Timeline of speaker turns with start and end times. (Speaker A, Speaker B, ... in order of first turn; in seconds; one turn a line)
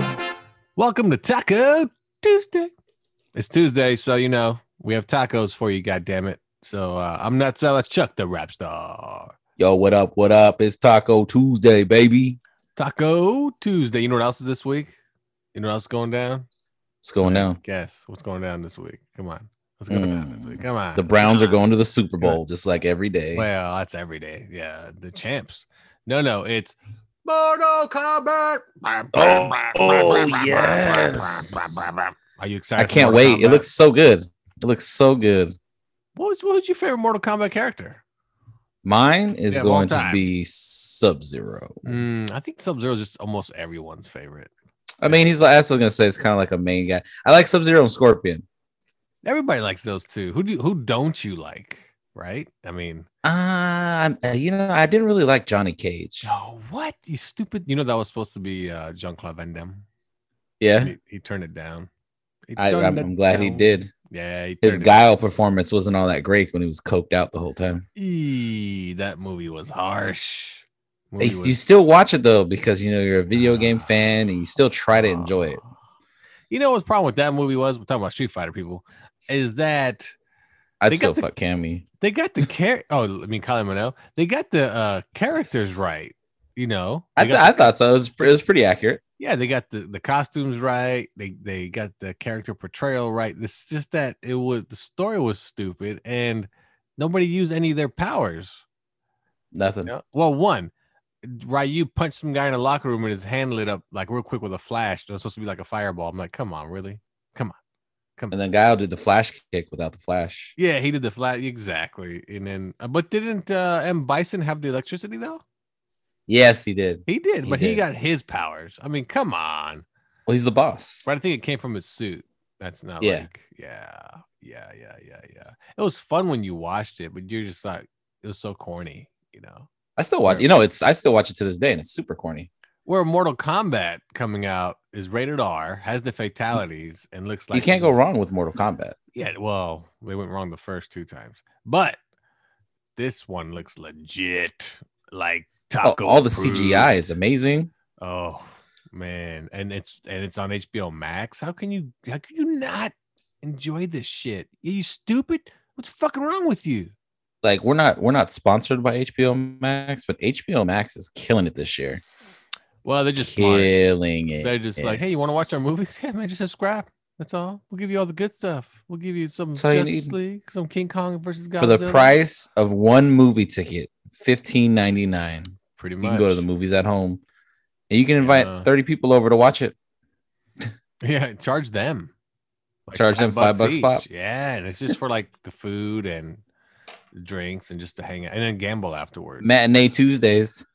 Speaker A: 0.8-2.7
Speaker A: 3.4-9.3
Speaker B: 9.6-12.4
Speaker A: 12.8-14.9
Speaker A: 15.5-16.4
Speaker B: 17.0-17.6
Speaker A: 17.2-21.6
Speaker B: 19.9-23.5
Speaker A: 23.3-33.7
Speaker B: 29.1-31.8
Speaker B: 32.8-35.5
Speaker A: 36.1-38.0
Speaker B: 38.8-42.0
Speaker A: 39.5-40.3
Speaker A: 41.8-44.5
Speaker B: 45.0-48.4
Speaker A: 49.2-53.1
Speaker B: 53.2-56.3
Speaker A: 56.2-59.8
Speaker B: 60.6-60.9
Speaker A: 60.8-61.9
Speaker A: 62.5-65.1
Speaker B: 62.6-63.9
Speaker B: 64.6-67.8
Speaker A: 68.0-71.6
Speaker B: 71.2-75.6
Speaker A: 73.3-73.9
Speaker A: 74.9-75.7
Speaker A: 76.5-80.1
Speaker B: 80.8-81.8
Speaker A: 80.9-81.3
Speaker A: 82.0-87.6
Speaker B: 85.5-85.8
Speaker B: 87.2-89.0
Speaker A: 89.2-98.6
Speaker B: 99.5-99.9
Speaker A: 99.8-100.7
Speaker A: 101.2-107.5
Speaker B: 108.3-110.5
Speaker A: 110.6-115.4
Speaker B: 116.3-117.8
Speaker A: 117.1-119.8
Speaker B: 120.3-121.1
Speaker A: 121.0-129.7
Speaker B: 123.0-123.3
Speaker B: 130.0-132.5
Speaker A: 132.8-138.1
Speaker B: 137.5-138.9
Speaker A: 139.1-142.0
Speaker A: 142.9-146.9
Speaker B: 145.8-147.7
Speaker A: 148.0-156.9
Speaker B: 157.4-162.0
Speaker A: 162.8-163.8
Speaker B: 163.2-165.0
Speaker A: 164.4-172.2
Speaker B: 169.6-170.2
Speaker B: 171.6-177.2
Speaker A: 175.8-176.5
Speaker B: 177.9-179.7
Speaker A: 178.2-178.7
Speaker A: 181.0-182.1
Speaker A: 182.9-186.4
Speaker B: 182.9-184.0
Speaker A: 187.1-189.5
Speaker B: 189.4-190.6